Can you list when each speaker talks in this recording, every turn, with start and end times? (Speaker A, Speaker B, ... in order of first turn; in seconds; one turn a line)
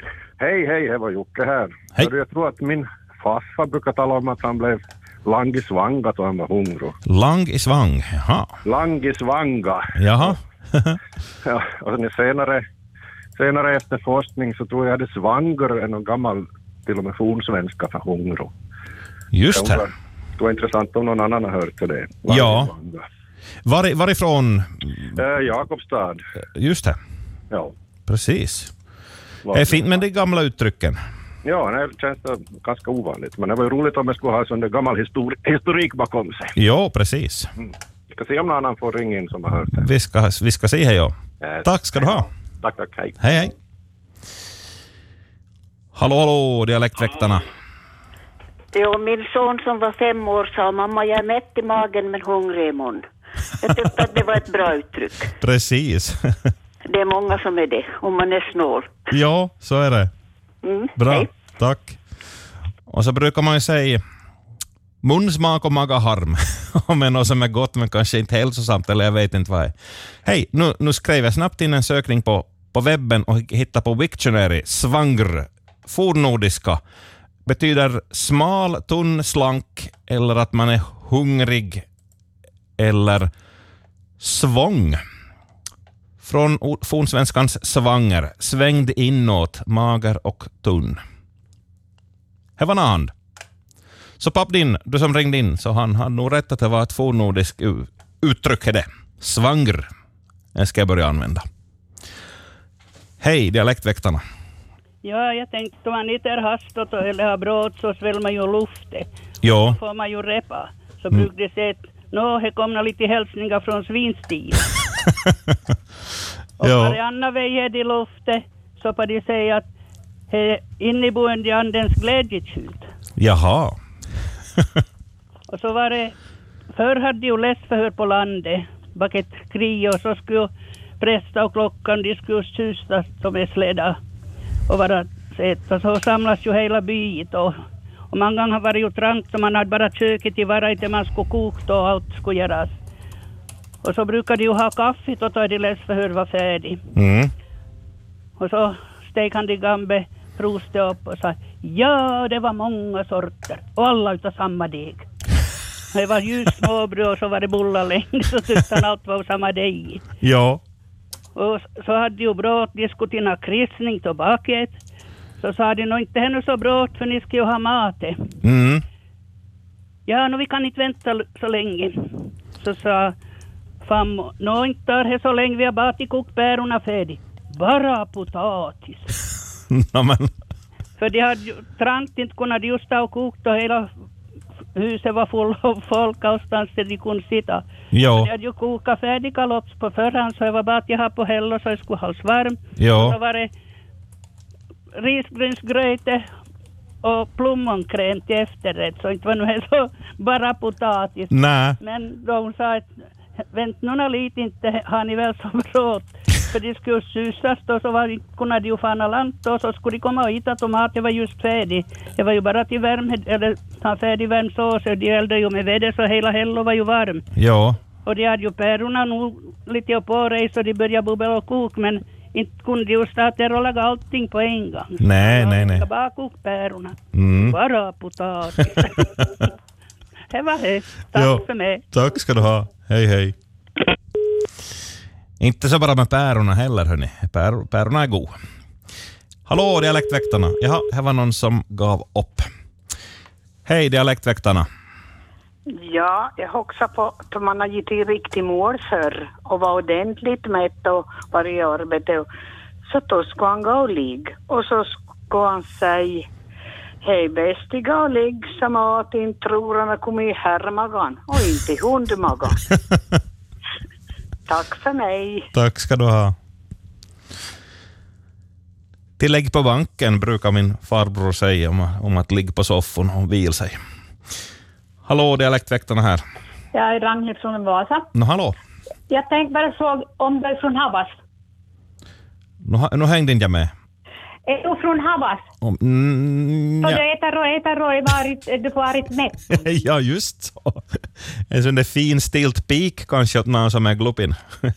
Speaker A: 0.4-6.9
Speaker B: 7.1-8.5
Speaker A: 8.7-10.3
Speaker B: 9.9-11.0
Speaker A: 11.4-12.6
Speaker A: 13.4-18.5
Speaker B: 19.3-19.8
Speaker A: 19.5-23.0
Speaker B: 22.3-22.7
Speaker B: 23.7-25.1
Speaker A: 25.1-26.2
Speaker B: 26.5-27.0
Speaker B: 28.1-28.7
Speaker A: 29.5-29.9
Speaker B: 29.5-31.0
Speaker A: 31.4-36.5
Speaker B: 36.6-37.5
Speaker A: 37.6-39.9
Speaker B: 39.7-42.3
Speaker A: 41.4-43.1
Speaker B: 43.2-43.5
Speaker B: 46.0-47.5
Speaker C: 48.7-53.1
Speaker C: 53.6-55.3
Speaker B: 55.4-56.5
Speaker C: 56.9-59.1
Speaker B: 59.1-60.1
Speaker C: 60.6-61.3
Speaker B: 61.0-62.0
Speaker B: 62.9-64.0
Speaker B: 65.0-69.7
Speaker B: 70.2-76.8
Speaker B: 77.5-81.8
Speaker B: 82.8-83.3
Speaker B: 84.2-85.0
Speaker B: 86.2-91.0
Speaker B: 92.6-93.1
Speaker B: 94.2-99.9
Speaker B: 100.5-101.5
Speaker B: 103.2-104.2
Speaker D: 105.0-109.1
Speaker B: 109.4-109.8
Speaker D: 109.7-114.7
Speaker D: 116.6-119.7
Speaker B: 116.6-117.0
Speaker D: 120.3-122.9
Speaker B: 123.2-123.8
Speaker D: 125.5-126.2
Speaker D: 126.7-134.0
Speaker D: 134.7-137.6
Speaker D: 138.1-142.8
Speaker D: 143.8-146.8
Speaker B: 146.9-147.3
Speaker D: 148.4-155.1
Speaker D: 155.9-160.0
Speaker B: 160.2-160.6
Speaker D: 161.3-164.8
Speaker D: 165.4-168.2
Speaker B: 168.4-168.8
Speaker D: 170.1-173.2
Speaker D: 173.8-179.1
Speaker B: 179.7-180.3
Speaker D: 181.0-183.9
Speaker D: 184.8-193.5
Speaker B: 187.9-188.3
Speaker B: 192.8-193.2
Speaker D: 195.0-196.2
Speaker D: 197.0-202.9
Speaker B: 201.3-201.8
Speaker D: 203.5-217.2
Speaker B: 217.3-217.8
Speaker D: 218.1-229.3
Speaker B: 225.0-225.8
Speaker B: 227.1-227.6
Speaker D: 230.3-231.8
Speaker B: 231.1-233.3
Speaker B: 235.4-238.3
Speaker B: 239.5-242.5
Speaker B: 243.7-244.7
Speaker E: 245.8-252.3
Speaker E: 252.9-256.3
Speaker E: 257.0-262.6
Speaker E: 264.5-265.5
Speaker B: 265.5-266.4
Speaker B: 269.2-273.8
Speaker B: 275.1-276.2
Speaker F: 276.7-278.1
Speaker B: 278.1-278.6
Speaker F: 279.1-281.2
Speaker B: 282.6-283.7
Speaker F: 284.5-285.5
Speaker B: 285.6-287.0
Speaker F: 286.8-289.6
Speaker B: 289.5-290.8
Speaker B: 291.5-294.4